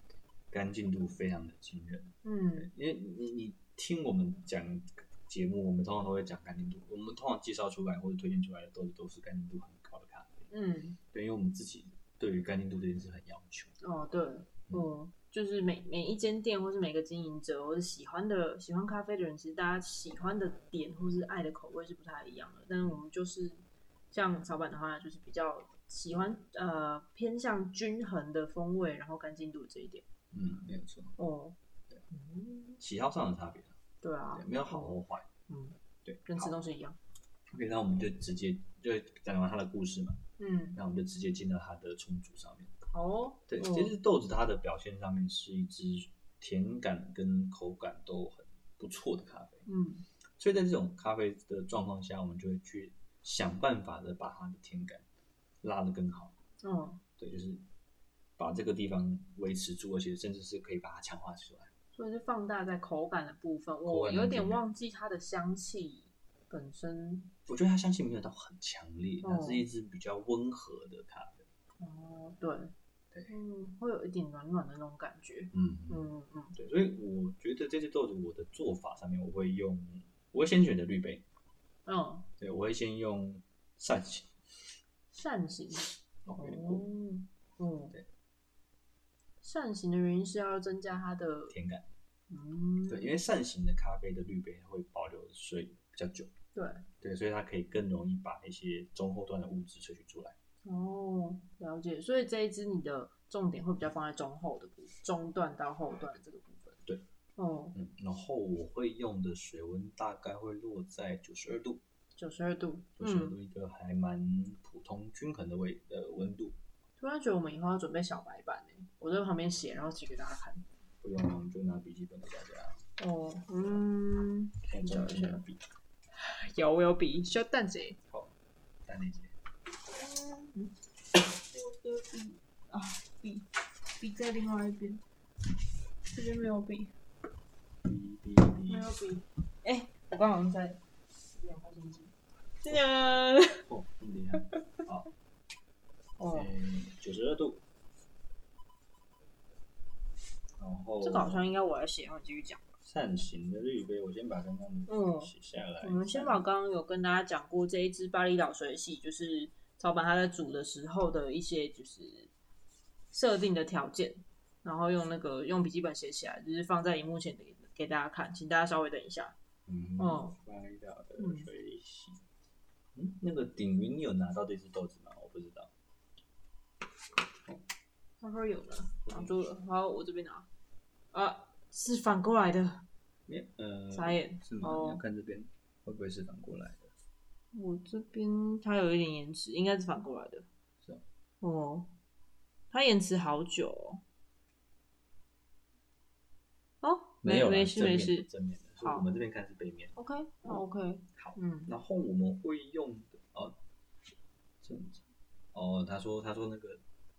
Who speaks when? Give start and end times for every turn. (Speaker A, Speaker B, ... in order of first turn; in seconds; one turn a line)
Speaker A: 0.5-10.5
Speaker B: 2.2-2.7
Speaker B: 10.5-11.0
Speaker A: 11.1-13.8
Speaker B: 13.8-30.0
Speaker A: 30.3-31.2
Speaker B: 31.2-31.6
Speaker B: 32.1-32.8
Speaker A: 32.8-33.8
Speaker B: 34.0-35.0
Speaker A: 34.3-35.3
Speaker B: 35.5-35.8
Speaker A: 36.0-36.6
Speaker B: 36.3-37.0
Speaker A: 37.5-40.2
Speaker B: 40.4-40.8
Speaker A: 40.8-42.7
Speaker B: 42.9-43.9
Speaker A: 43.5-49.7
Speaker B: 49.7-50.0
Speaker A: 50.4-55.0
Speaker A: 55.6-56.4
Speaker B: 56.6-57.0
Speaker A: 57.2-57.6
Speaker A: 58.4-61.7
Speaker B: 61.9-67.3
Speaker A: 63.9-64.6
Speaker A: 67.5-71.5
Speaker B: 69.2-69.7
Speaker B: 71.8-72.7
Speaker B: 73.3-76.5
Speaker A: 75.5-81.2
Speaker B: 81.8-82.3
Speaker A: 82.4-84.3
Speaker B: 85.1-88.0
Speaker A: 86.2-86.8
Speaker B: 89.4-91.5
Speaker A: 91.5-91.9
Speaker B: 92.3-93.2
Speaker A: 92.9-96.3
Speaker B: 96.5-96.8
Speaker A: 97.0-100.3
Speaker B: 100.7-106.8
Speaker B: 107.4-107.8
Speaker A: 107.8-111.8
Speaker B: 112.2-113.4
Speaker A: 113.0-116.6
Speaker B: 117.0-120.7
Speaker A: 121.0-122.8
Speaker B: 123.0-125.4
Speaker A: 124.7-125.6
Speaker B: 126.1-128.0
Speaker A: 128.1-128.3
Speaker A: 128.9-129.3
Speaker B: 129.9-135.0
Speaker B: 136.1-136.9
Speaker A: 137.8-138.9
Speaker B: 138.7-140.8
Speaker B: 141.4-143.7
Speaker A: 143.7-145.1
Speaker B: 146.2-146.5
Speaker A: 146.3-147.6
Speaker A: 150.6-151.5
Speaker B: 151.0-152.8
Speaker A: 152.8-156.4
Speaker B: 154.9-155.3
Speaker B: 155.8-162.3
Speaker B: 163.1-169.4
Speaker A: 169.7-172.2
Speaker B: 170.0-170.4
Speaker B: 171.2-171.5
Speaker A: 172.9-175.7
Speaker B: 178.2-180.5
Speaker A: 179.1-179.3
Speaker B: 181.1-182.8
Speaker A: 183.3-186.9
Speaker B: 183.9-185.0
Speaker B: 187.5-190.5
Speaker B: 191.4-191.9
Speaker B: 192.7-194.0
Speaker B: 196.8-198.3
Speaker A: 197.2-199.9
Speaker B: 198.8-199.1
Speaker B: 200.0-201.7
Speaker A: 201.2-203.6
Speaker A: 204.6-206.8